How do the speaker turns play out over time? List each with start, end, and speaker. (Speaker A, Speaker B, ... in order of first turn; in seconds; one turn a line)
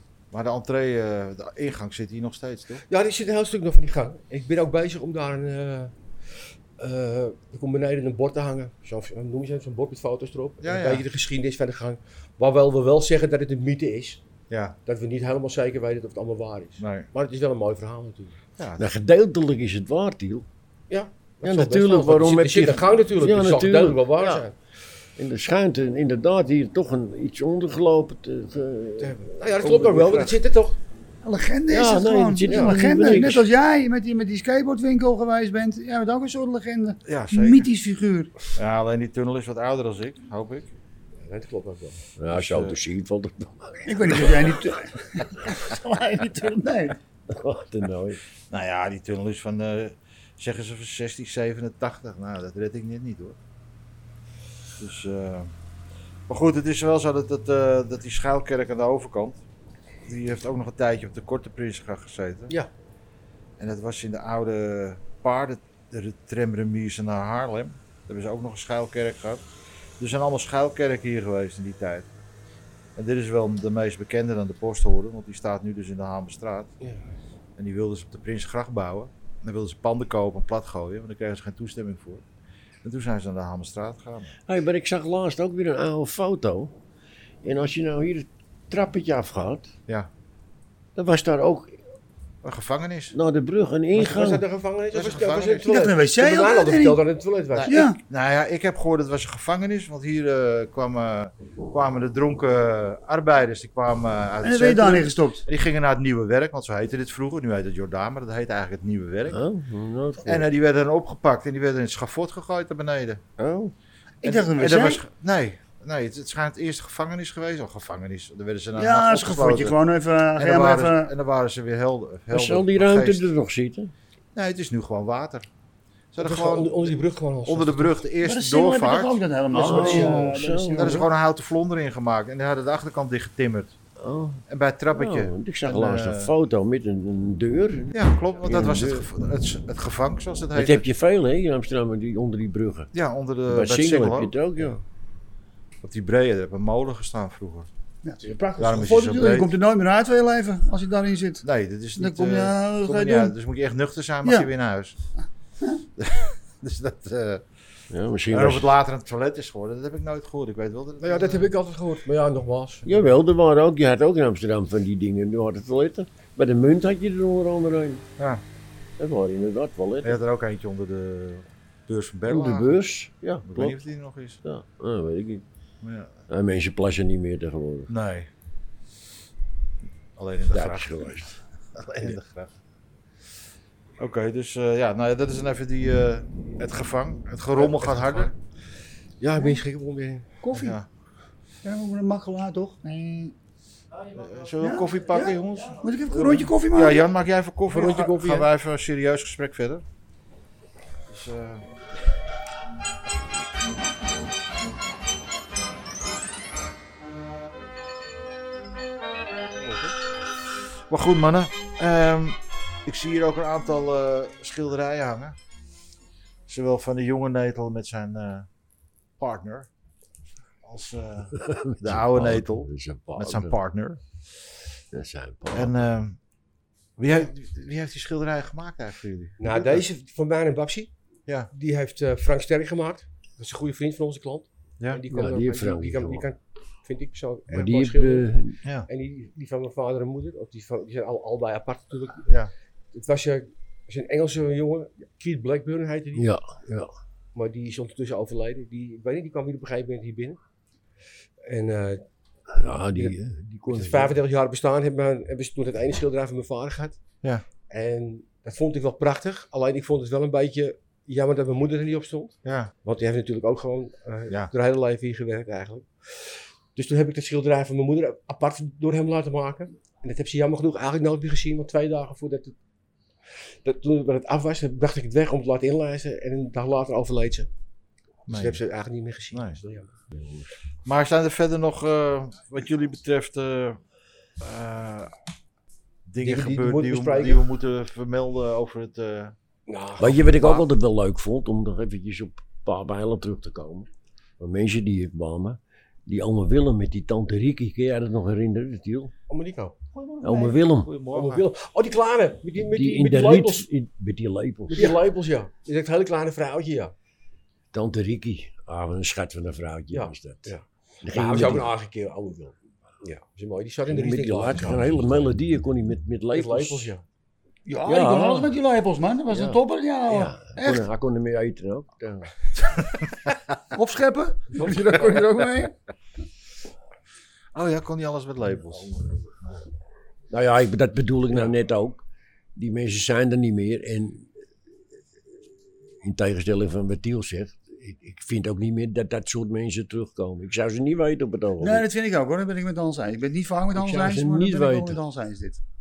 Speaker A: 0.3-2.8
Speaker B: 2.9-5.9
Speaker B: 6.8-14.2
Speaker A: 10.6-11.1
Speaker A: 14.5-14.8
Speaker B: 14.8-18.4
Speaker A: 16.8-17.1
Speaker A: 18.6-18.9
Speaker C: 18.8-20.4
Speaker B: 20.9-24.5
Speaker C: 21.4-24.4
Speaker C: 25.2-30.3
Speaker B: 29.0-30.8
Speaker D: 31.2-38.3
Speaker C: 31.7-33.5
Speaker B: 32.5-33.3
Speaker A: 37.0-37.7
Speaker A: 38.5-40.7
Speaker B: 41.2-42.1
Speaker C: 42.2-44.5
Speaker A: 42.3-42.8
Speaker D: 43.9-47.0
Speaker C: 47.3-48.2
Speaker A: 48.5-53.4
Speaker A: 54.8-55.5
Speaker A: 56.3-59.4
Speaker A: 60.0-62.5
Speaker A: 63.6-69.4
Speaker A: 70.0-72.1
Speaker A: 73.0-76.7
Speaker A: 77.6-82.2
Speaker A: 82.8-84.4
Speaker C: 84.5-86.7
Speaker C: 87.4-89.7
Speaker C: 91.0-91.8
Speaker A: 92.4-93.2
Speaker C: 93.1-94.4
Speaker B: 93.9-97.8
Speaker A: 94.9-95.7
Speaker D: 95.6-97.0
Speaker A: 97.5-109.4
Speaker D: 97.7-98.0
Speaker D: 104.4-105.4
Speaker C: 109.3-110.5
Speaker A: 110.2-113.2
Speaker C: 113.4-113.7
Speaker D: 114.2-115.0
Speaker A: 114.2-119.8
Speaker D: 118.8-121.1
Speaker A: 120.3-123.3
Speaker C: 122.3-123.9
Speaker A: 124.3-125.5
Speaker A: 126.1-129.2
Speaker B: 126.2-128.0
Speaker D: 128.2-131.1
Speaker C: 129.5-131.0
Speaker B: 129.6-130.2
Speaker A: 129.8-130.2
Speaker A: 130.7-133.8
Speaker C: 134.0-139.1
Speaker A: 134.5-136.3
Speaker A: 137.9-140.8
Speaker C: 140.5-142.9
Speaker A: 142.9-144.4
Speaker C: 143.5-144.8
Speaker A: 145.8-147.7
Speaker D: 148.0-151.4
Speaker A: 148.6-149.5
Speaker A: 151.4-154.9
Speaker D: 152.0-153.3
Speaker D: 154.2-154.5
Speaker A: 156.0-157.4
Speaker C: 157.9-158.7
Speaker A: 158.3-161.5
Speaker B: 161.0-162.9
Speaker C: 162.8-168.1
Speaker A: 168.2-168.4
Speaker C: 169.0-170.2
Speaker A: 170.0-172.8
Speaker C: 172.2-173.8
Speaker A: 173.4-174.4
Speaker C: 174.4-175.4
Speaker A: 175.8-176.1
Speaker C: 176.3-177.9
Speaker A: 177.9-178.3
Speaker A: 180.2-181.1
Speaker C: 180.5-181.4
Speaker A: 181.7-182.5
Speaker A: 184.0-188.3
Speaker B: 187.6-188.3
Speaker B: 189.2-190.3
Speaker D: 189.3-189.6
Speaker D: 190.4-190.8
Speaker A: 190.5-190.9
Speaker D: 191.6-193.3
Speaker A: 194.1-199.8
Speaker D: 194.6-197.1
Speaker B: 197.7-198.5
Speaker A: 201.1-201.7
Speaker A: 210.9-215.4
Speaker A: 216.5-218.5
Speaker A: 219.2-219.7
Speaker A: 220.6-224.0
Speaker C: 221.3-223.6
Speaker C: 224.9-225.8
Speaker A: 225.5-226.2
Speaker A: 227.0-229.8
Speaker B: 229.4-230.9
Speaker B: 231.5-238.3
Speaker C: 235.1-236.3
Speaker C: 237.5-238.6
Speaker B: 238.9-242.3
Speaker A: 242.3-242.5
Speaker B: 242.9-246.3
Speaker C: 246.1-246.9
Speaker B: 247.3-250.4
Speaker B: 251.4-252.0
Speaker C: 252.5-254.2
Speaker B: 252.9-253.2
Speaker B: 253.7-257.0
Speaker B: 257.7-272.6
Speaker A: 262.4-262.7
Speaker B: 273.6-277.5
Speaker B: 278.2-279.9
Speaker A: 278.3-278.6
Speaker A: 279.3-279.6
Speaker C: 280.1-280.5
Speaker A: 280.9-283.8
Speaker A: 284.4-285.1
Speaker A: 286.1-289.3
Speaker B: 286.2-287.4
Speaker B: 289.7-290.7
Speaker C: 290.0-293.9
Speaker C: 294.4-299.1
Speaker B: 299.3-303.6
Speaker C: 300.2-300.9
Speaker A: 300.8-301.5
Speaker C: 302.7-305.0
Speaker B: 304.7-306.9
Speaker C: 307.7-311.7
Speaker B: 309.9-315.0
Speaker C: 313.9-316.9
Speaker B: 316.3-317.0
Speaker D: 317.6-320.9
Speaker C: 317.9-318.5
Speaker C: 319.3-322.3
Speaker A: 322.7-323.3
Speaker D: 323.7-325.7
Speaker B: 324.6-325.0
Speaker A: 327.5-329.4
Speaker C: 330.3-332.0
Speaker C: 332.6-334.3
Speaker C: 336.0-341.9
Speaker D: 341.6-345.6
Speaker C: 343.7-345.0